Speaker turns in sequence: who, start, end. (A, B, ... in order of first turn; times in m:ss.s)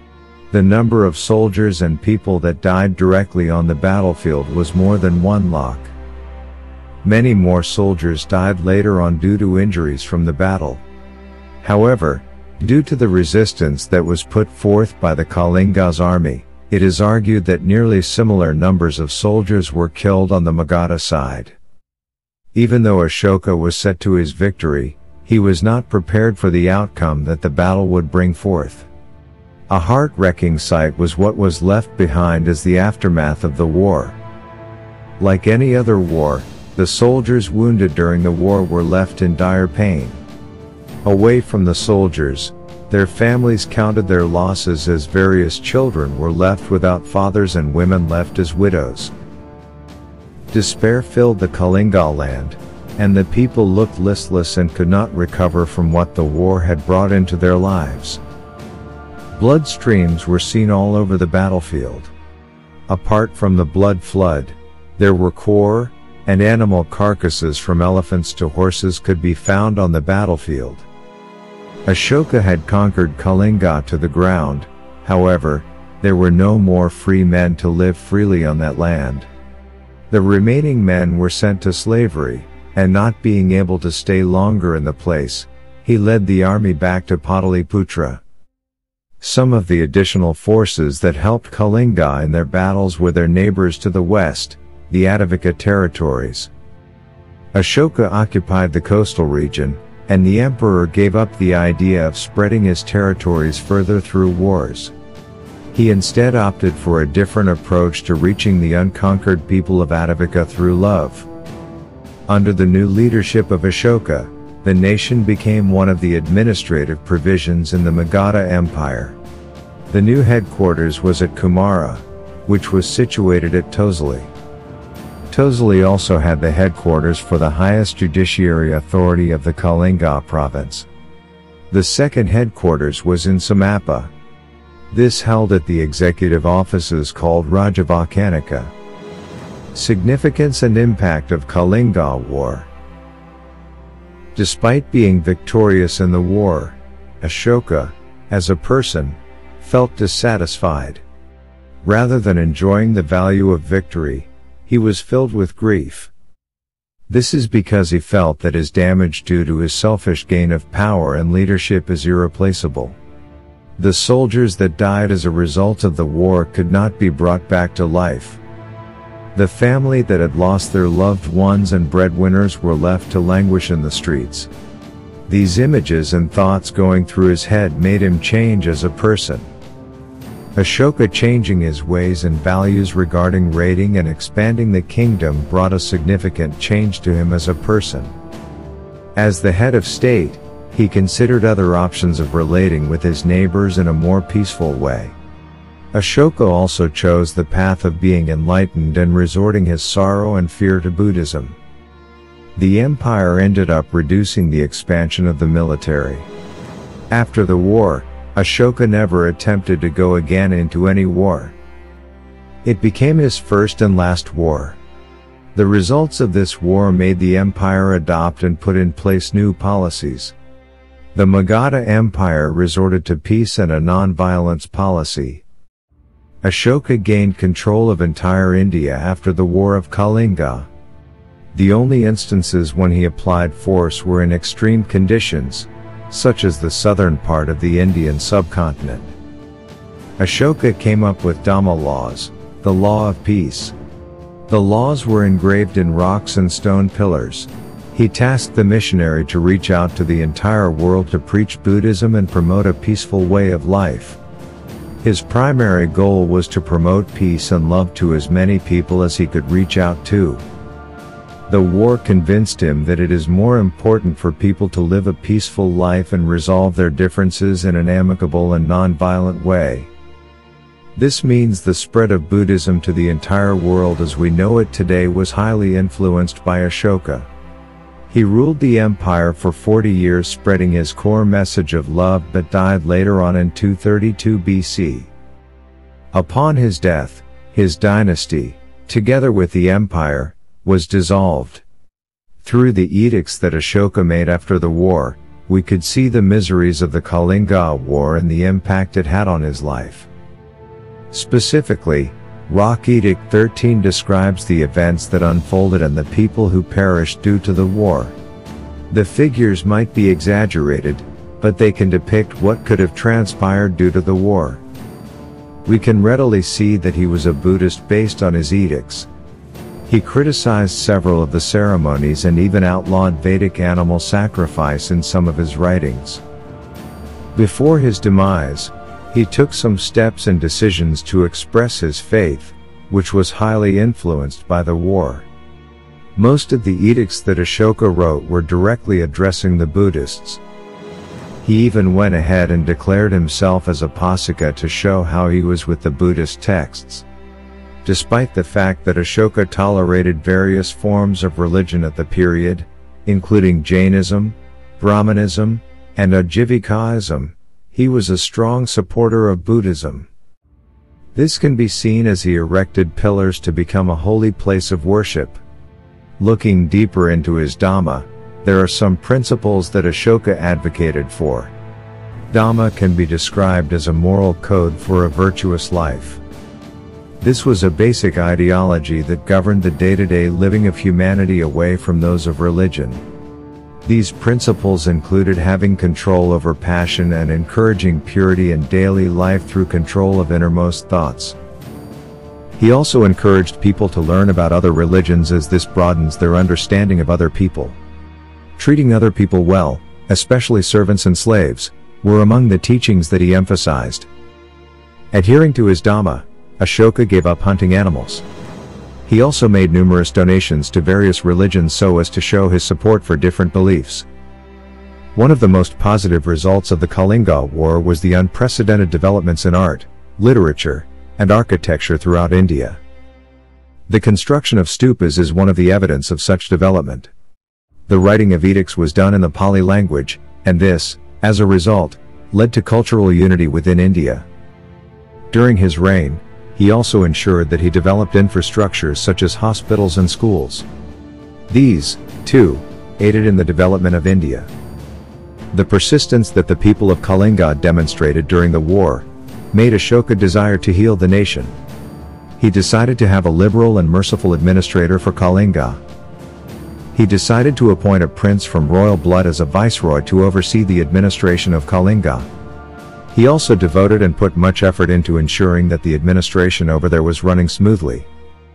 0:00.5-0:05.9 A
0:07.0-0:10.8 A
0:11.6-0:21.6 A
0:22.5-0:28.9 A
0:29.7-0:34.2 A
0:35.2-0:40.2 A
0:41.0-0:49.1 A
0:50.5-0:58.2 A
0:59.3-1:02.1 A
1:02.9-1:10.8 A
1:11.9-1:19.3 A
1:20.1-1:28.2 A
1:29.2-1:36.5 A
1:37.5-1:44.9 A
1:45.7-1:51.3 A
1:52.3-1:59.2 A
1:59.9-2:04.3 A
2:05.3-2:10.9 A
2:11.7-2:14.1 A
2:14.9-2:18.7 A
2:19.7-2:22.7 A
2:24.4-2:31.0 A
2:31.8-2:36.1 A
2:37.1-2:43.0 A
2:43.8-2:48.4 A
2:49.3-2:54.5 A
2:55.3-2:59.5 A
3:00.5-3:08.2 A
3:09.2-3:15.2 A
3:15.9-3:21.6 A
3:22.6-3:26.3 A
3:27.1-3:31.6 A
3:32.6-3:34.8 A
3:35.5-3:40.3 A
3:41.1-3:45.4 A
3:46.4-3:50.7 A
3:51.5-3:59.1 A
4:00.2-4:03.7 A
4:04.5-4:14.2 A
4:15.0-4:20.4 A
4:21.5-4:29.9 A
4:31.0-4:37.3 A
4:38.1-4:45.1 A
4:46.1-4:51.6 A
4:52.4-5:00.1 A
5:01.1-5:08.2 A
5:08.9-5:14.6 A
5:15.6-5:19.1 A
5:19.9-5:26.2 A
5:27.3-5:35.3 A
5:36.2-5:40.4 A
5:41.4-5:47.0 A
5:47.8-6:00.1 A
6:01.1-6:05.4 A
6:06.2-6:11.5 A
6:12.3-6:16.2 A
6:17.2-6:23.0 A
6:23.8-6:31.4 A
6:32.6-6:37.8 A
6:38.6-6:44.1 A
6:45.1-6:48.2 A
6:49.0-6:54.1 A
6:55.1-7:02.8 A
7:03.9-7:07.1 A
7:07.9-7:14.3 A
7:15.3-7:20.6 A
7:21.5-7:24.5 A
7:25.5-7:31.6 A
7:32.4-7:35.8 A
7:36.9-7:42.3 A
7:43.1-7:48.1 A